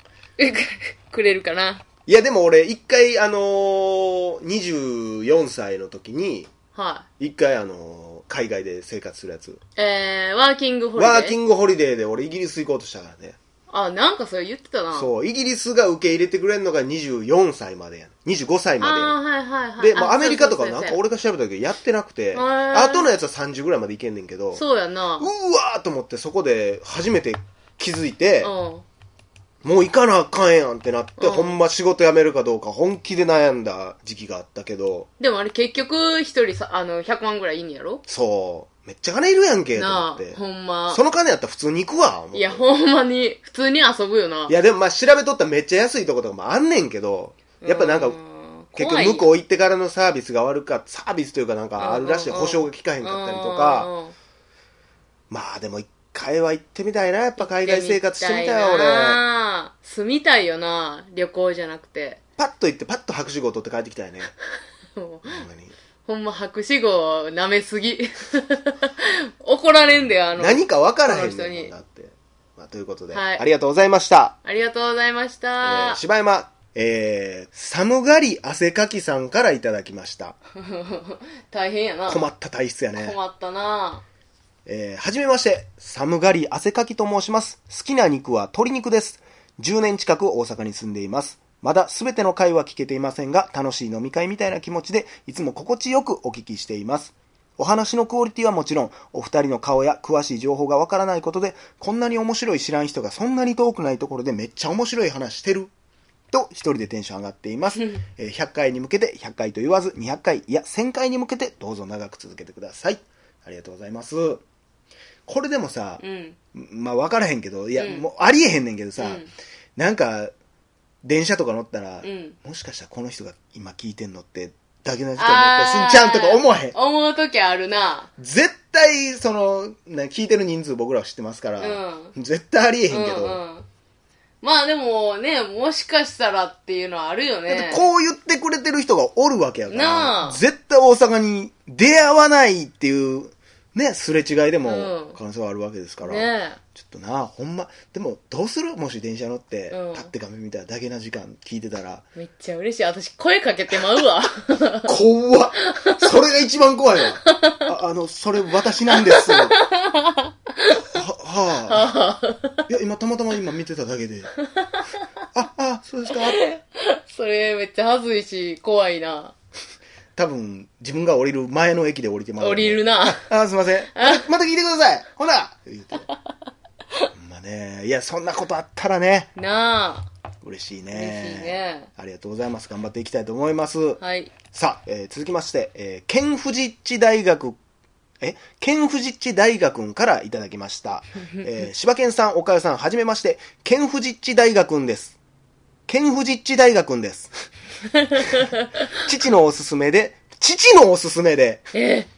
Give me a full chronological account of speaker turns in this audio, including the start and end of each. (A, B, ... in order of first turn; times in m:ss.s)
0:00.4-0:01.8 A
0:02.1-0:06.5 B
0:06.7-0:07.1 A
0:07.2-0:09.6 B
0:09.8-0:11.4 A
0:11.0-0:13.4 B
0:13.7-0:15.1 A
0:14.9-0:19.2 B
0:18.8-0:21.0 A
0:19.8-0:24.6 B
0:22.3-0:23.1 A
0:24.5-0:25.3 A
0:25.2-0:28.5 B
0:28.4-0:28.8 A
0:29.6-0:35.1 B
0:31.2-0:31.6 A
0:35.2-0:38.0 A
0:38.1-0:40.4 B
0:39.8-0:41.0 A
0:40.9-0:42.6 B
0:42.3-0:44.5 A
0:44.5-0:48.2 B
0:47.6-0:49.3 A
0:48.8-0:53.9 B
0:51.8-0:54.2 A
0:55.3-0:59.2 B
0:57.4-1:02.2 A
1:02.4-1:04.3 B
1:05.0-1:05.4 A
1:05.2-1:05.7 B
1:06.1-1:11.7 A
1:10.3-1:14.4 B
1:13.1-1:13.4 A
1:14.4-1:16.0 A
1:15.6-1:20.4 B
1:20.6-1:22.2 A
1:22.1-1:23.2 B
1:23.0-1:24.0 A
1:24.7-1:45.7 B
1:46.3-1:54.4 B
1:55.3-1:56.0 B
1:56.0-1:56.4 A
1:56.5-1:59.2 B
1:57.8-1:58.1 A
1:59.0-1:59.3 A
1:59.8-2:00.3 B
2:01.0-2:06.8 B
2:02.0-2:02.4 A
2:05.2-2:08.1 A
2:08.2-2:13.4 B
2:11.6-2:12.1 A
2:12.9-2:13.7 A
2:14.4-2:17.8 A
2:17.5-2:32.1 B
2:19.7-2:20.4 A
2:24.6-2:25.2 A
2:26.0-2:26.6 A
2:29.7-2:30.1 A
2:32.2-2:34.9 A
2:34.9-2:39.6 B
2:35.7-2:36.0 A
2:37.2-2:37.7 A
2:39.0-2:40.8 A
2:40.9-2:41.9 B
2:41.7-2:42.6 A
2:42.7-2:44.3 B
2:44.4-2:45.0 A
2:45.3-2:46.4 B
2:46.1-2:49.3 A
2:50.2-2:56.1 B
2:52.4-2:53.2 A
2:53.9-2:54.2 A
2:57.2-2:59.3 B
2:59.4-3:00.1 A
3:00.4-3:04.0 B
3:00.9-3:01.9 A
3:04.0-3:04.3 A
3:04.5-3:07.6 B
3:08.2-3:15.2 B
3:15.9-3:17.3 B
3:18.0-3:18.6 A
3:18.9-3:21.7 B
3:21.7-3:22.1 A